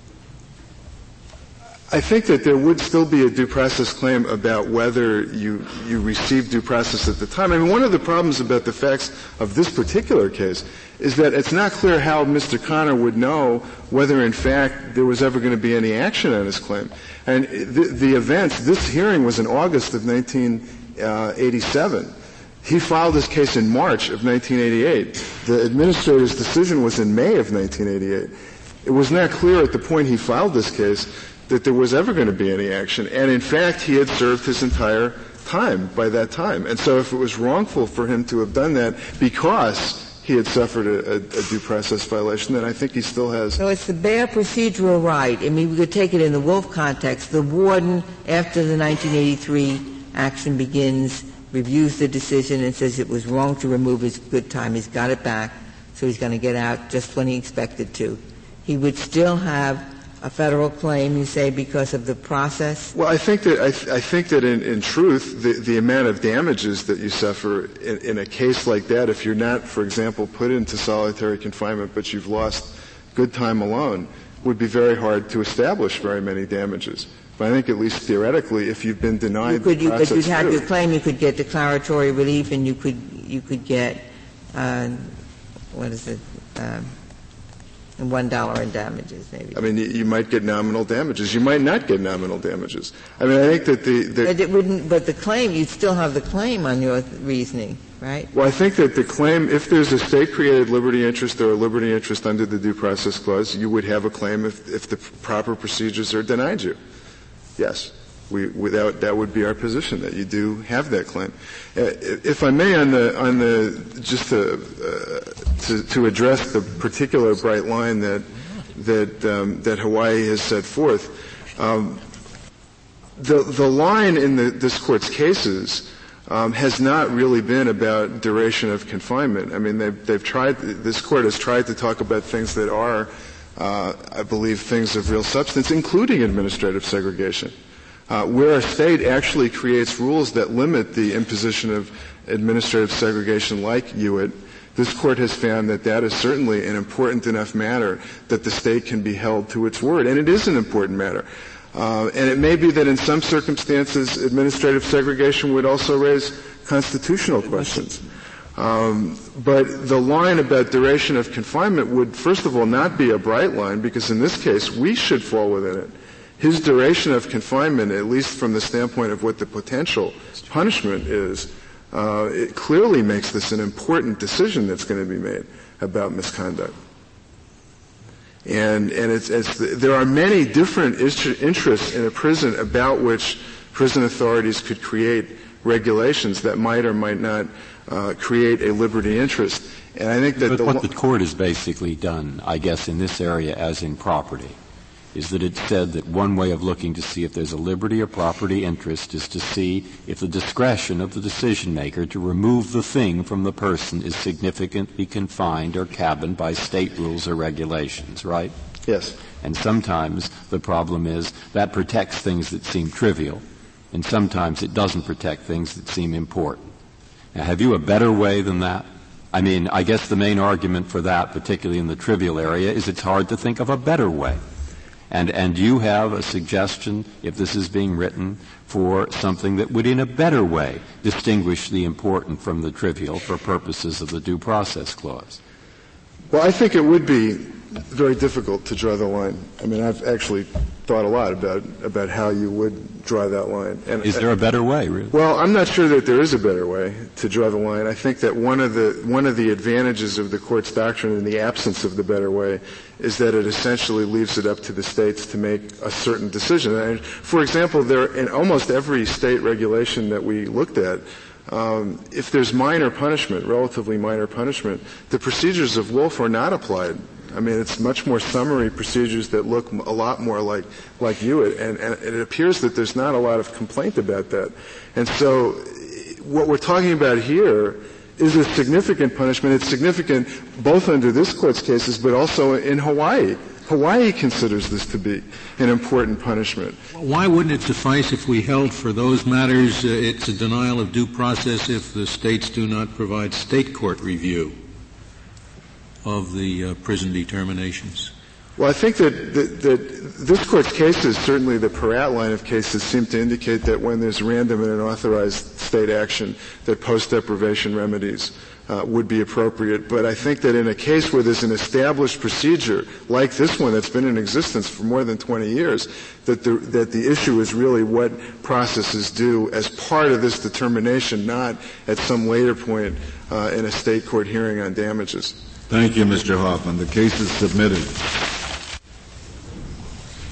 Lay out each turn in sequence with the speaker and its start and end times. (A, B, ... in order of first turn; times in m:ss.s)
0:01.9-0:43.6 A
0:43.6-1:02.9 B
1:02.9-1:20.6 A
1:19.4-1:25.2 B
1:25.7-1:26.9 B
1:28.0-1:29.6 B
1:29.5-1:34.3 A
1:34.2-1:38.3 B
1:38.3-1:46.8 A
1:47.6-2:02.0 A
2:03.2-2:17.5 A
2:18.1-2:56.7 A
2:58.4-3:10.9 A
3:10.4-3:14.6 C
3:15.1-3:28.5 C
3:28.8-3:29.2 A
3:29.4-3:36.7 C
3:37.3-3:44.4 C
3:45.1-3:55.4 C
3:56.3-4:04.3 A
4:04.0-4:05.2 C
4:05.1-4:46.8 A
4:46.9-4:54.6 D
4:56.0-4:58.1 D
4:58.6-5:25.4 A
5:25.7-5:28.1 E